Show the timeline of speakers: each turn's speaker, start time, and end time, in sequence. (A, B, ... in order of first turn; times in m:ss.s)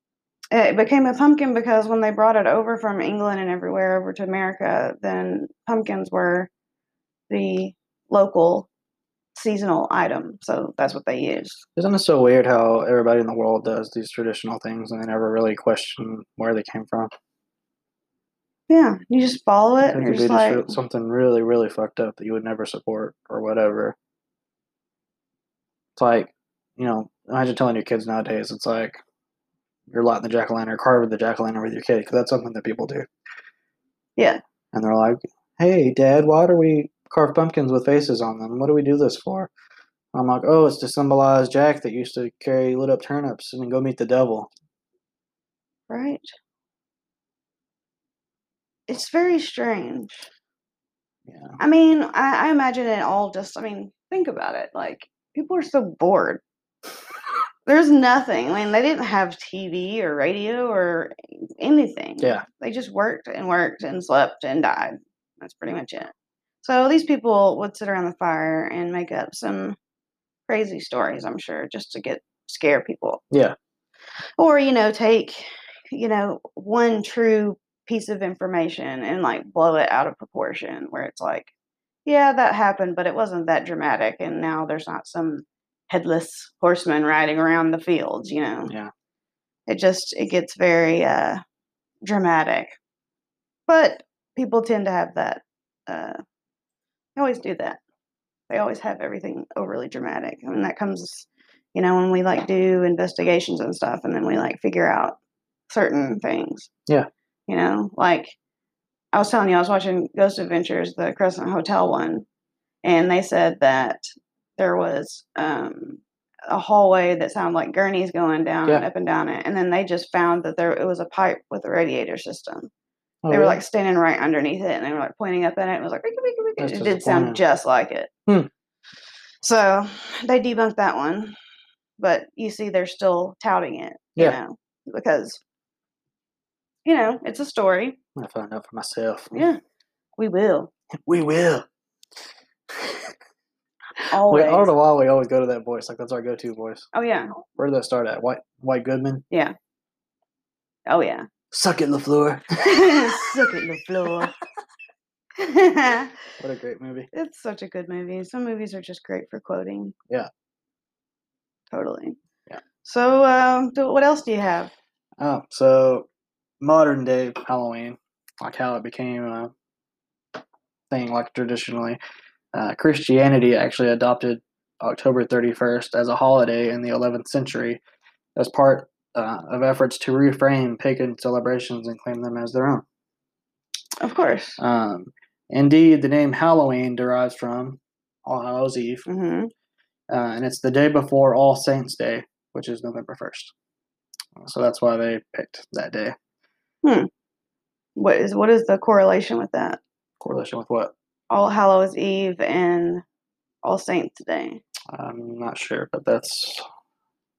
0:00.5-0:06.5 A
0:07.3-0:08.7 A
0:09.4-0:11.6 A
0:11.8-0:17.1 B
0:18.7-0:20.8 A
0:19.8-0:24.0 B
0:26.0-0:29.0 B
0:29.9-0:33.1 B
0:34.7-0:39.5 B
0:40.1-0:44.5 B
0:45.9-0:46.2 A
0:48.9-0:50.3 A
0:51.3-0:51.6 B
0:51.6-0:56.4 A
0:57.6-1:09.8 A
1:10.5-1:13.2 A
1:14.4-1:21.5 A
1:22.1-1:28.7 A
1:28.6-1:28.9 B
1:29.7-1:31.4 A
1:32.0-1:32.8 A
1:33.7-1:36.2 A
1:37.2-1:37.8 A
1:38.5-1:45.2 A
1:45.7-1:46.7 A
1:47.5-1:48.4 A
1:49.1-1:52.2 A
1:52.8-1:54.0 A
1:54.6-2:02.7 A
2:03.2-2:03.6 B
2:03.3-2:08.1 A
2:06.6-2:07.4 B
2:09.4-2:11.4 A
2:12.0-2:15.4 A
2:16.8-2:18.0 A
2:18.2-2:19.5 B
2:19.3-2:19.6 A
2:20.2-2:20.7 A
2:20.9-2:21.7 B
2:22.7-2:23.1 B
2:24.0-2:24.7 A
2:24.0-2:26.9 B
2:26.9-2:27.3 A
2:27.6-2:29.2 B
2:30.9-2:31.2 A
2:31.5-2:33.3 B
2:32.6-2:34.3 A
2:35.4-2:36.1 A
2:36.4-2:37.1 B
2:37.1-2:40.0 A
2:41.7-2:42.2 A
2:42.8-2:44.7 A
2:45.2-2:46.1 B
2:46.6-2:49.5 B
2:50.9-2:52.0 B
2:52.5-2:57.8 B
2:58.4-3:02.8 B
3:04.0-3:04.6 A
3:04.6-3:09.1 B
3:09.1-3:09.5 A
3:10.1-3:13.5 B
3:14.4-3:16.1 B
3:16.8-3:17.1 A
3:18.0-3:19.8 A
3:20.2-3:20.9 B
3:21.3-3:23.0 A
3:23.6-3:24.6 A
3:24.9-3:26.6 B